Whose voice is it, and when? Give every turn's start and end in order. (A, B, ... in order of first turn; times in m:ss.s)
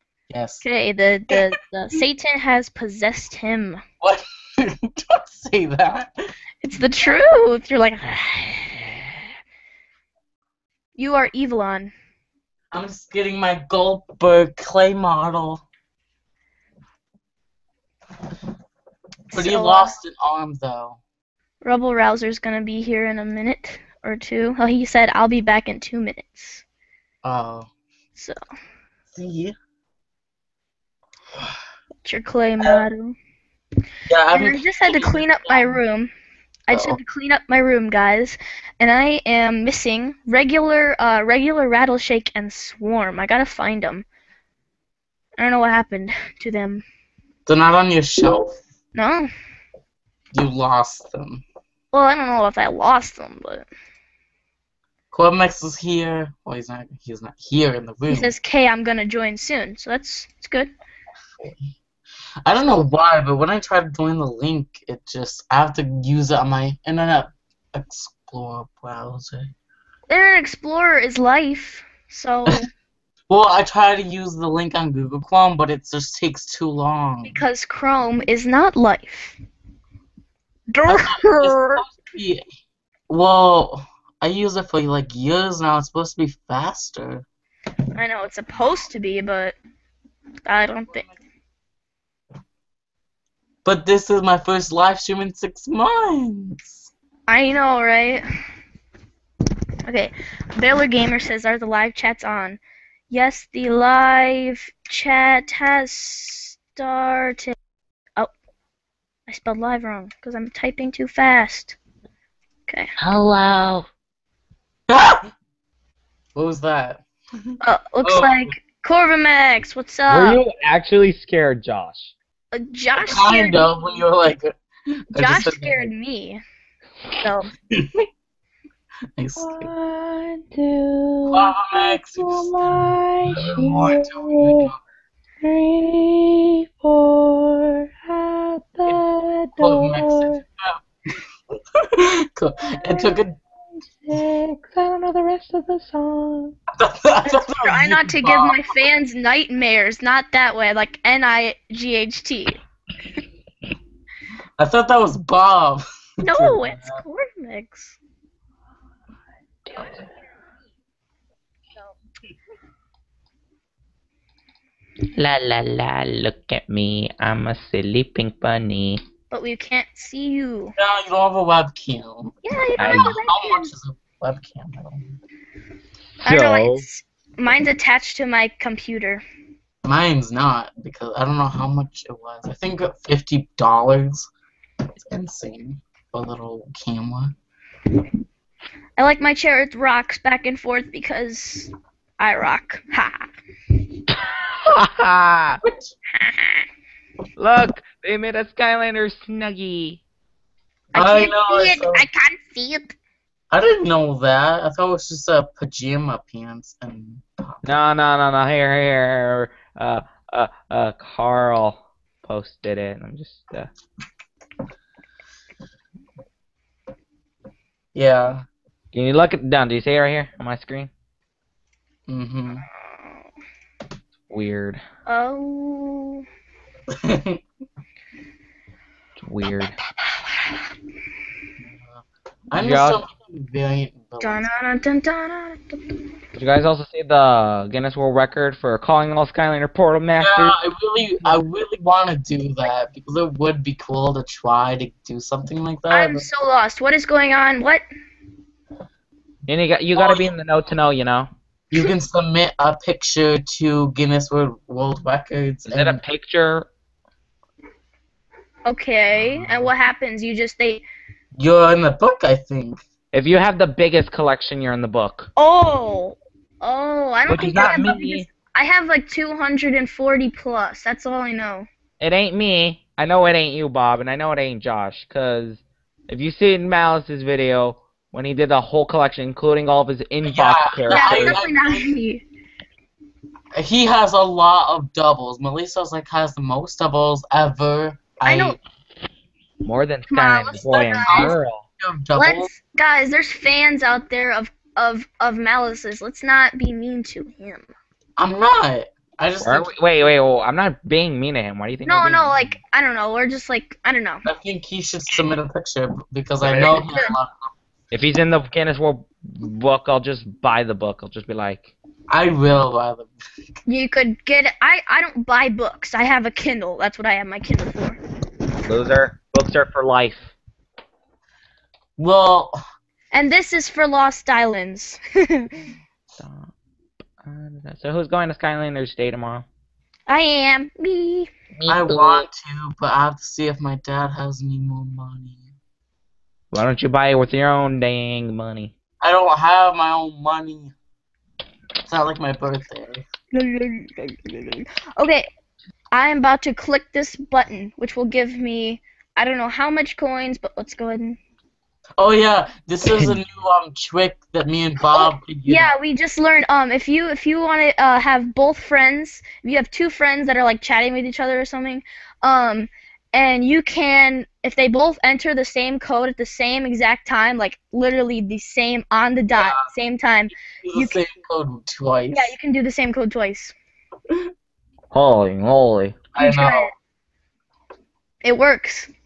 0:00.3-0:00.6 A
0:00.6-0:03.8 B
0:04.0-0:06.1 A
0:06.6-0:09.1 B
0:11.0-0:11.9 B
0:12.7-0:15.6 A
0:19.3-0:20.0 B
0:19.3-0:21.0 A
0:21.6-0:26.6 B
0:27.2-0:27.7 A
0:29.2-0:29.6 A
0:32.0-0:33.2 B
0:34.1-0:35.8 A
0:34.3-0:36.1 B
0:36.7-0:44.0 B
0:36.7-0:37.0 A
0:45.4-0:46.8 B
0:47.5-0:48.6 A
0:49.0-0:49.3 B
0:50.3-0:51.4 A
0:51.9-0:53.7 B
0:55.1-0:58.3 A
0:58.1-1:00.7 B
1:02.4-1:09.5 A
1:10.1-1:12.7 B
1:13.3-1:17.4 A
1:17.2-1:19.4 B
1:20.7-1:21.8 B
1:20.9-1:22.4 A
1:23.1-1:27.2 A
1:28.0-1:29.6 B
1:30.4-1:31.1 B
1:33.6-1:36.9 A
1:37.3-1:38.2 B
1:39.9-1:47.6 B
1:49.3-1:51.8 B
1:53.0-1:53.9 C
1:54.9-1:55.3 A
1:56.4-1:57.5 A
1:57.6-2:00.4 B
1:58.0-1:58.5 A
2:00.1-2:02.1 C
2:02.5-2:04.0 B
2:03.0-2:05.9 A
2:05.1-2:06.4 B
2:07.2-2:07.5 B
2:07.7-2:08.1 A
2:09.2-2:09.7 A
2:09.4-2:14.7 C
2:11.3-2:14.8 A
2:15.4-2:20.4 C
2:19.6-2:21.2 A
2:21.8-2:23.4 A
2:22.8-2:23.2 C
2:24.0-2:26.6 C
2:26.8-2:28.7 A
2:27.2-2:32.6 B
2:34.6-2:37.0 A
2:36.2-2:38.0 B
2:39.7-2:40.1 C
2:45.2-2:49.0 C
2:49.3-2:50.8 B
2:50.8-2:55.0 A
2:52.4-2:53.7 B
2:52.8-2:53.2 C
2:56.2-2:56.8 C
2:56.2-2:59.2 B
2:59.8-3:04.3 A
3:05.0-3:07.4 A
3:09.0-3:13.3 B
3:14.1-3:15.6 C
3:17.4-3:20.0 C
3:20.9-3:22.1 A
3:20.9-3:23.0 B
3:23.5-3:27.6 A
3:27.6-3:33.7 C
3:37.9-3:38.4 A
3:38.9-3:40.9 C
3:42.1-3:42.6 A
3:44.3-3:44.8 C
3:45.1-3:46.2 B
3:46.9-3:47.4 A
3:49.2-3:49.8 C
3:51.8-3:54.5 A
3:52.5-3:53.0 C
3:54.2-3:55.8 B
3:56.4-4:00.6 C
4:00.2-4:06.3 A
4:05.9-4:07.8 B
4:09.5-4:11.3 C
4:11.7-4:16.0 A
4:15.7-4:16.7 C
4:18.7-4:20.8 B
4:21.4-4:22.8 A
4:23.1-4:25.3 C
4:25.4-4:31.7 B
4:27.3-4:28.2 C
4:27.3-4:28.2 A
4:32.0-4:41.4 C
4:40.2-4:41.9 A
4:40.9-4:42.2 B
4:43.5-4:48.6 A
4:48.2-4:48.6 B
4:49.6-4:51.6 C
4:50.1-4:51.4 B
4:50.6-4:52.5 A
4:52.2-4:57.7 B
4:58.2-4:59.7 A
4:59.4-5:02.6 C
5:01.9-5:04.2 B
5:04.2-5:07.5 A
5:06.4-5:06.8 C
5:06.6-5:07.1 B
5:07.9-5:11.7 C
5:12.1-5:13.1 A
5:13.7-5:18.0 B
5:18.6-5:20.3 C
5:22.0-5:22.6 A
5:23.1-5:25.6 B
5:26.2-5:26.5 C
5:27.2-5:29.5 C
5:30.1-5:31.3 B
5:31.6-5:32.3 C
5:31.7-5:35.5 A
5:36.5-5:38.7 C
5:39.0-5:40.7 A
5:41.9-5:43.0 A
5:43.3-5:45.3 B
5:45.9-5:51.2 B
5:52.0-5:55.7 A
5:54.9-6:11.0 B
6:09.4-6:09.7 A
6:10.6-6:12.4 A
6:12.1-6:13.5 B
6:14.9-6:16.0 C
6:16.2-6:16.7 A
6:16.2-6:16.7 B
6:18.2-6:18.9 B